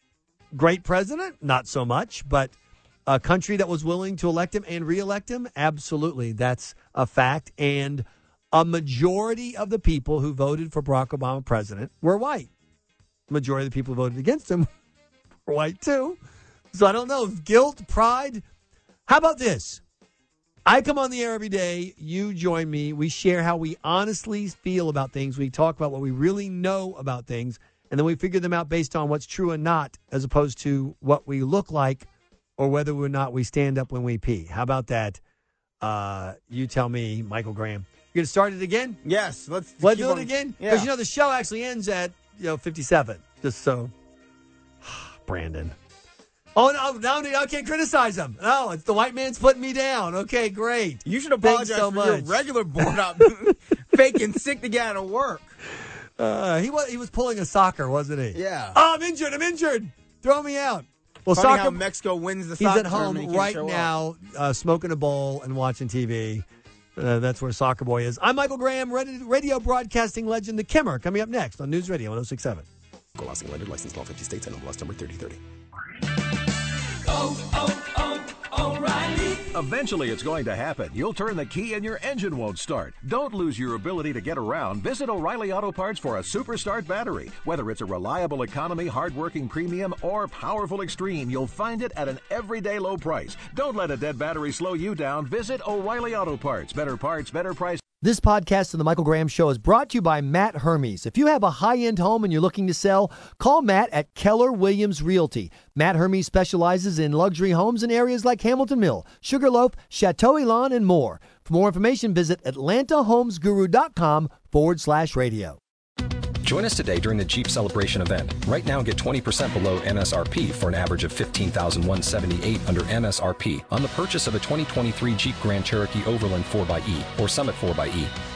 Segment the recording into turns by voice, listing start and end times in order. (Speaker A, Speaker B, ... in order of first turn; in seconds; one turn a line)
Speaker A: 0.5-12.5
Speaker A: 13.3-14.7
Speaker A: 15.4-16.2
Speaker A: 16.7-18.4
Speaker A: 19.1-19.8
Speaker A: 20.6-35.2
Speaker A: 35.8-39.0
Speaker B: 39.0-40.9
Speaker A: 39.8-43.9
Speaker A: 44.8-45.7
Speaker A: 46.5-53.2
Speaker B: 51.0-55.5
Speaker A: 56.2-61.8
Speaker B: 58.3-58.8
Speaker B: 61.3-63.9
Speaker A: 62.6-66.4
Speaker A: 67.0-72.7
Speaker C: 73.2-75.4
Speaker C: 77.2-97.8
Speaker A: 98.0-115.6
Speaker D: 116.4-128.1